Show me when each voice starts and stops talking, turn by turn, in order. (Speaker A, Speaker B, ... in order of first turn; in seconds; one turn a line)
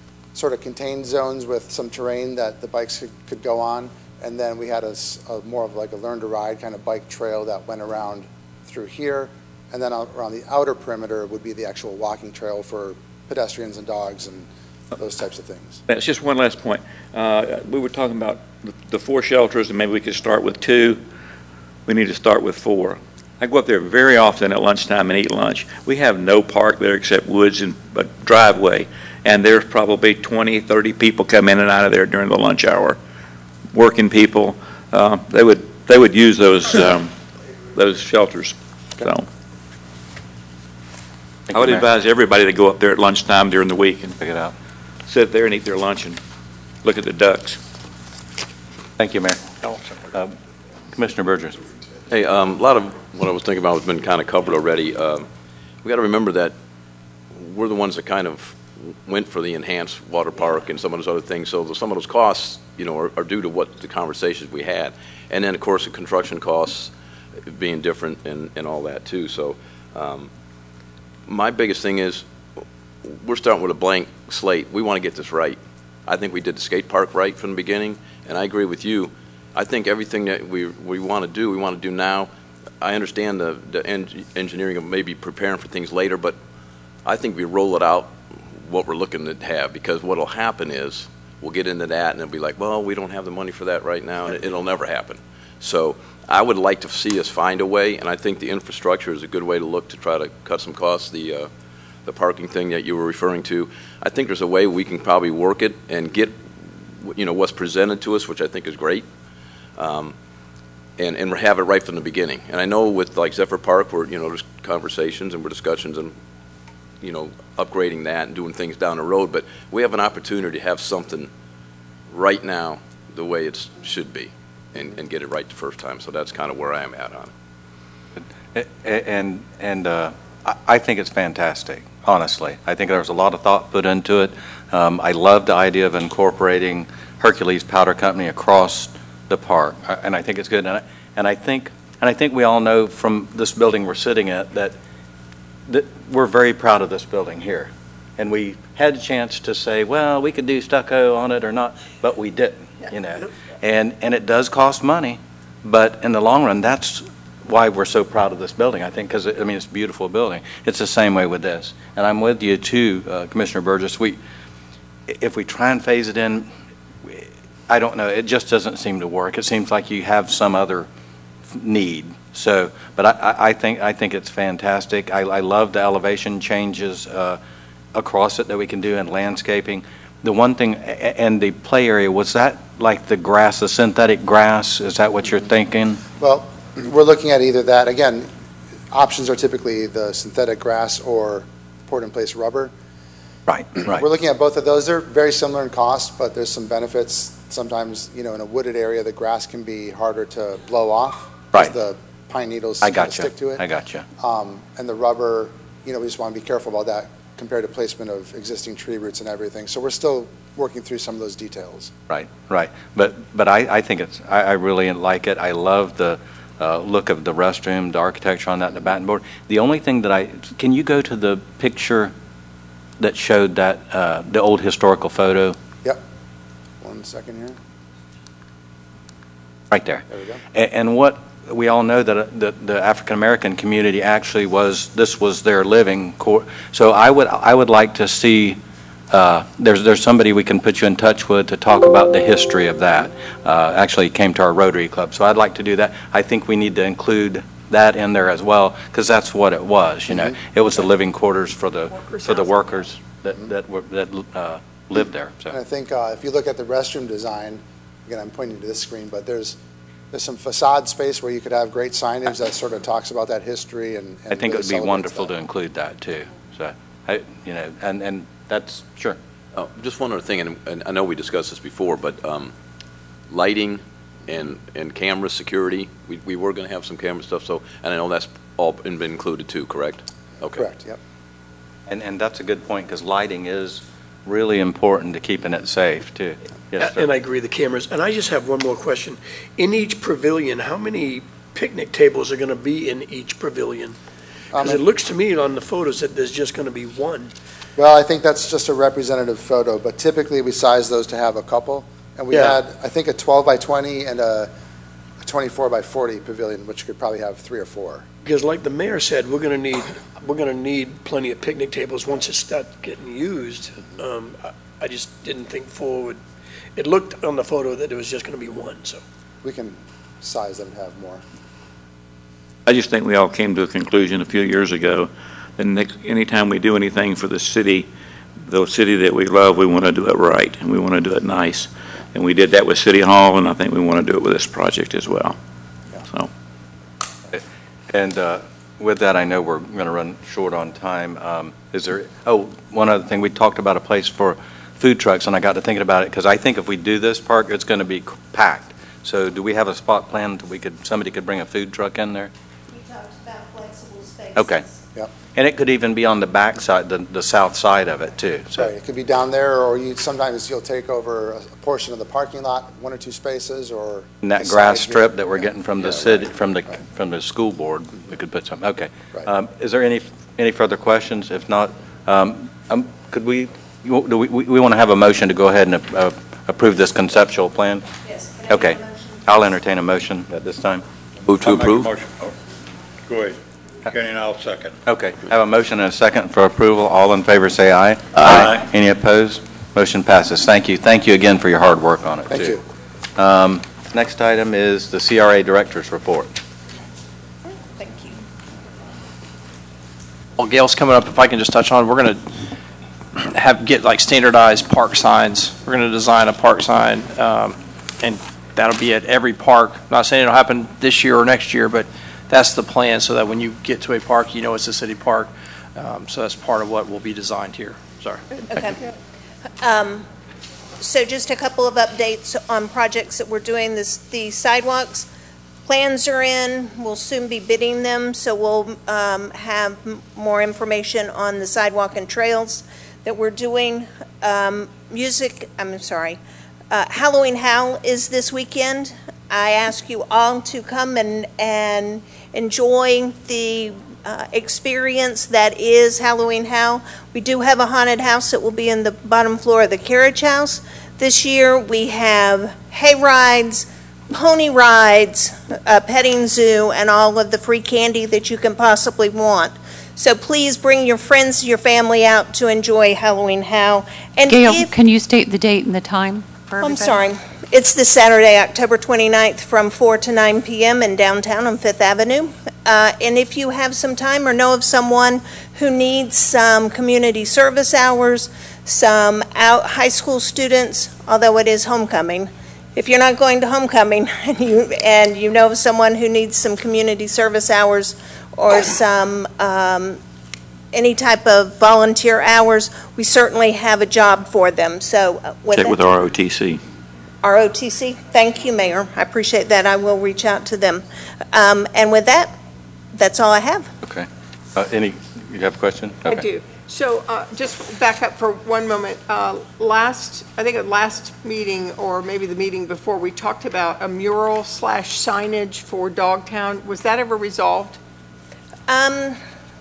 Speaker A: 0.3-15.8
Speaker B: 15.9-21.0
Speaker B: 21.9-33.0
Speaker B: 33.7-37.1
Speaker B: 37.7-39.3
Speaker C: 41.5-41.8
Speaker B: 41.5-44.2
Speaker C: 44.2-44.5
Speaker B: 45.1-46.2
Speaker B: 46.8-47.6
Speaker C: 49.0-50.3
Speaker C: 50.9-51.6
Speaker D: 52.1-55.3
Speaker D: 55.8-56.5
Speaker D: 57.3-66.9
Speaker D: 67.4-70.3
Speaker D: 71.3-72.2
Speaker D: 73.0-82.3
Speaker D: 82.8-86.4
Speaker D: 87.0-101.5
Speaker D: 102.0-109.1
Speaker D: 109.8-110.1
Speaker D: 111.0-116.1
Speaker D: 117.0-121.3
Speaker D: 122.1-127.3
Speaker C: 128.2-144.8
Speaker C: 145.7-164.2
Speaker C: 165.1-166.5
Speaker C: 167.0-170.9
Speaker C: 171.5-177.4
Speaker C: 177.9-186.0
Speaker A: 186.2-188.3
Speaker A: 188.9-192.7
Speaker C: 193.5-194.0
Speaker A: 193.8-203.6
Speaker C: 202.8-204.1
Speaker A: 204.2-211.9
Speaker C: 212.1-222.1
Speaker C: 223.0-225.6
Speaker A: 226.8-227.6
Speaker C: 229.7-238.6
Speaker A: 230.1-230.4
Speaker C: 239.1-255.5
Speaker E: 251.9-252.8
Speaker A: 255.5-259.6
Speaker A: 260.1-265.3
Speaker C: 264.3-269.2
Speaker D: 269.5-272.5
Speaker D: 273.3-280.6
Speaker A: 280.5-281.0
Speaker C: 281.9-287.1
Speaker F: 286.8-294.0
Speaker A: 294.5-294.8
Speaker F: 294.5-297.3
Speaker A: 297.8-304.5
Speaker F: 302.3-302.6
Speaker A: 305.2-308.1
Speaker F: 308.2-316.2
Speaker F: 316.8-319.0
Speaker A: 319.4-321.2
Speaker B: 322.6-327.9
Speaker B: 328.4-335.4
Speaker B: 336.0-336.3
Speaker C: 337.3-352.3
Speaker G: 352.7-354.8
Speaker C: 354.3-354.6
Speaker C: 355.3-358.7
Speaker A: 358.5-365.2
Speaker C: 364.2-377.8
Speaker A: 365.8-366.2
Speaker G: 378.0-379.2
Speaker C: 378.5-380.8
Speaker D: 381.2-381.9
Speaker H: 381.4-382.3
Speaker H: 383.1-384.7
Speaker C: 384.9-392.6
Speaker H: 388.2-388.6
Speaker A: 392.3-392.6
Speaker C: 393.2-396.4
Speaker G: 397.8-398.1
Speaker I: 400.4-402.3
Speaker I: 403.2-418.2
Speaker G: 418.5-418.8
Speaker G: 419.6-420.1
Speaker G: 420.8-425.1
Speaker G: 425.6-436.2
Speaker G: 436.7-464.7
Speaker J: 464.3-467.0
Speaker G: 466.6-490.0
Speaker G: 490.7-495.8
Speaker B: 495.5-496.6
Speaker G: 497.2-502.3
Speaker G: 502.9-503.7
Speaker C: 503.8-506.2
Speaker E: 506.0-517.8
Speaker G: 518.7-519.2